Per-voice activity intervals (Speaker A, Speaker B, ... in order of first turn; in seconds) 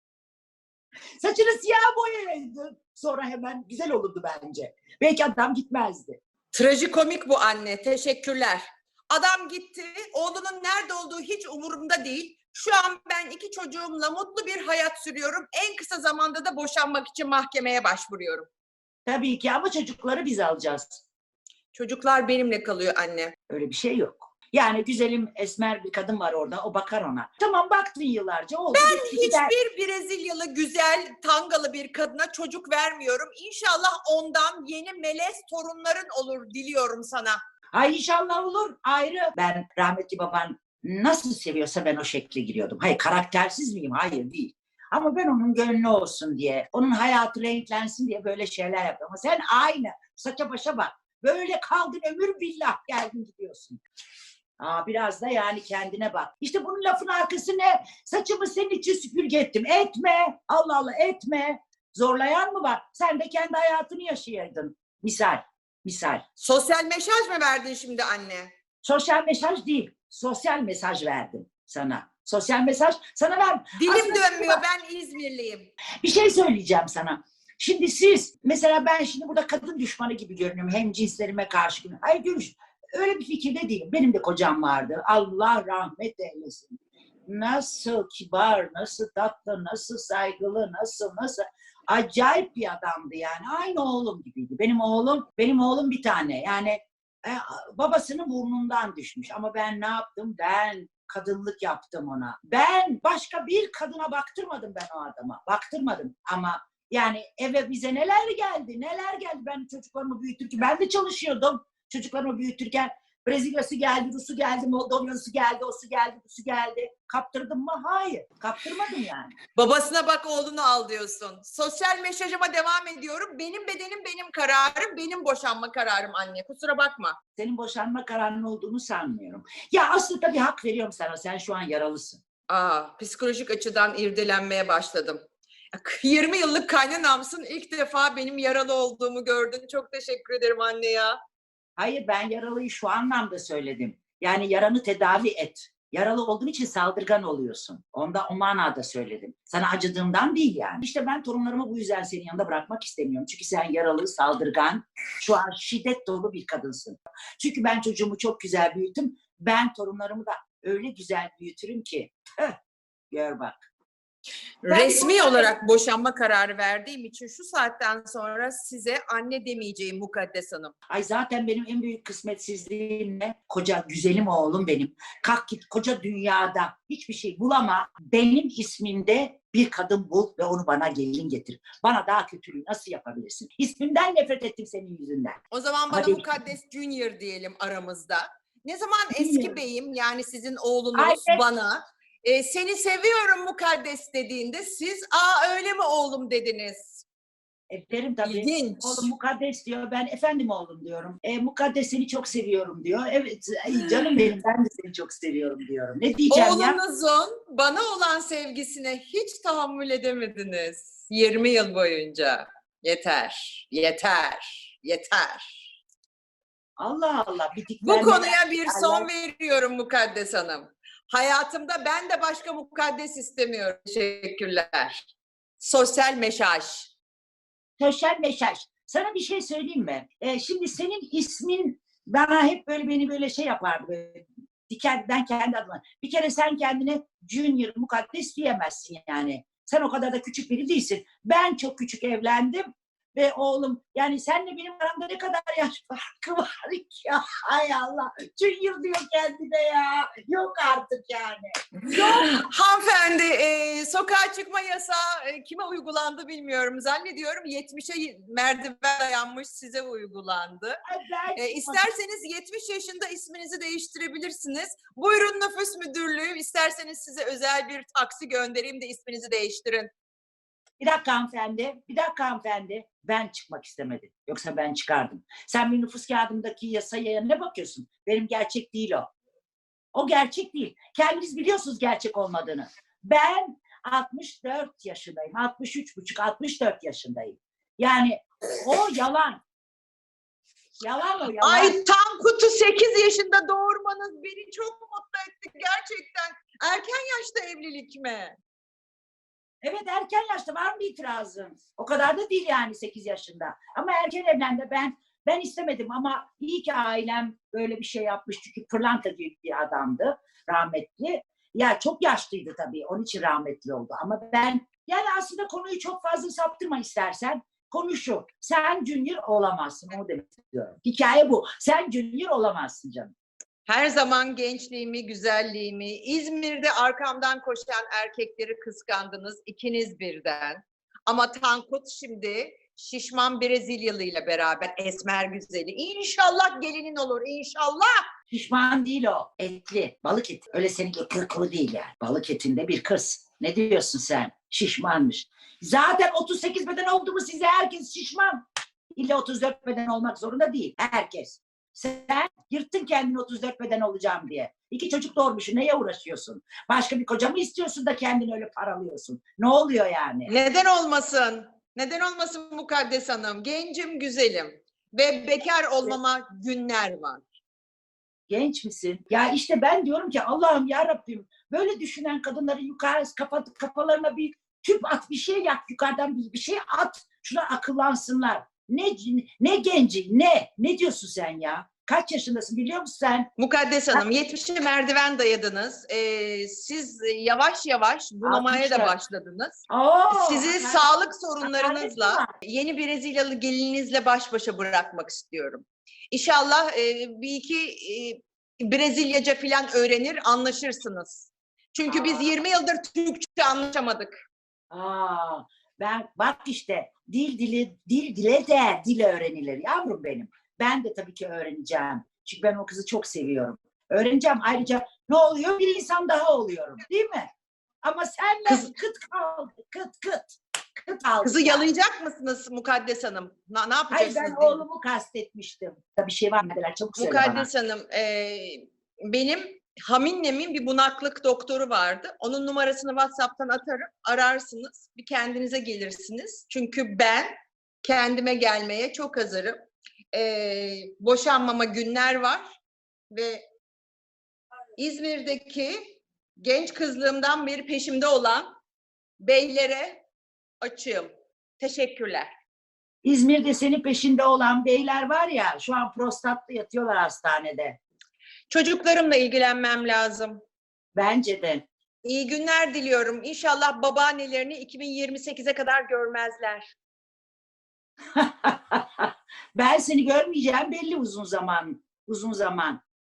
Speaker A: 1.2-6.2, 19.1-20.9, 23.5-29.5, 37.7-53.8, 54.6-66.2, 68.8-74.6, 76.0-119.4, 127.4-132.2, 141.8-162.6, 163.1-163.6, 164.7-165.6, 170.9-185.4, 185.9-186.4, 189.1-189.6, 190.9-191.4, 197.7-206.8, 216.8-219.1, 227.8-252.4, 260.9-261.9, 270.8-279.1, 279.9-289.4, 290.8-291.8, 299.6-323.1, 338.3-348.4, 348.9-360.3, 368.3-383.3, 388.2-389.0, 389.7-390.9, 391.4-392.3, 401.9-402.3, 404.7-417.3, 417.8-421.6, 423.9-427.5, 453.0-457.8, 460.9-461.7, 468.1-472.8
Speaker B: 6.5-18.5, 21.7-23.3, 28.7-37.4, 66.4-68.5, 73.8-75.7, 119.6-127.2, 132.5-135.2, 135.7-141.2, 164.6-170.7, 185.5-197.1, 198.2-199.1, 203.9-204.2, 206.3-215.6, 217.8-225.1, 225.6-226.9, 251.9-260.8, 261.4-269.9, 291.4-298.4, 323.7-338.1, 360.3-367.3, 383.4-404.1, 418.5-418.7, 421.2-424.6, 427.0-439.6, 440.1-442.5, 443.1-443.4, 444.8-448.5, 449.2-450.0, 450.6-452.3, 458.5-460.4, 462.0-466.7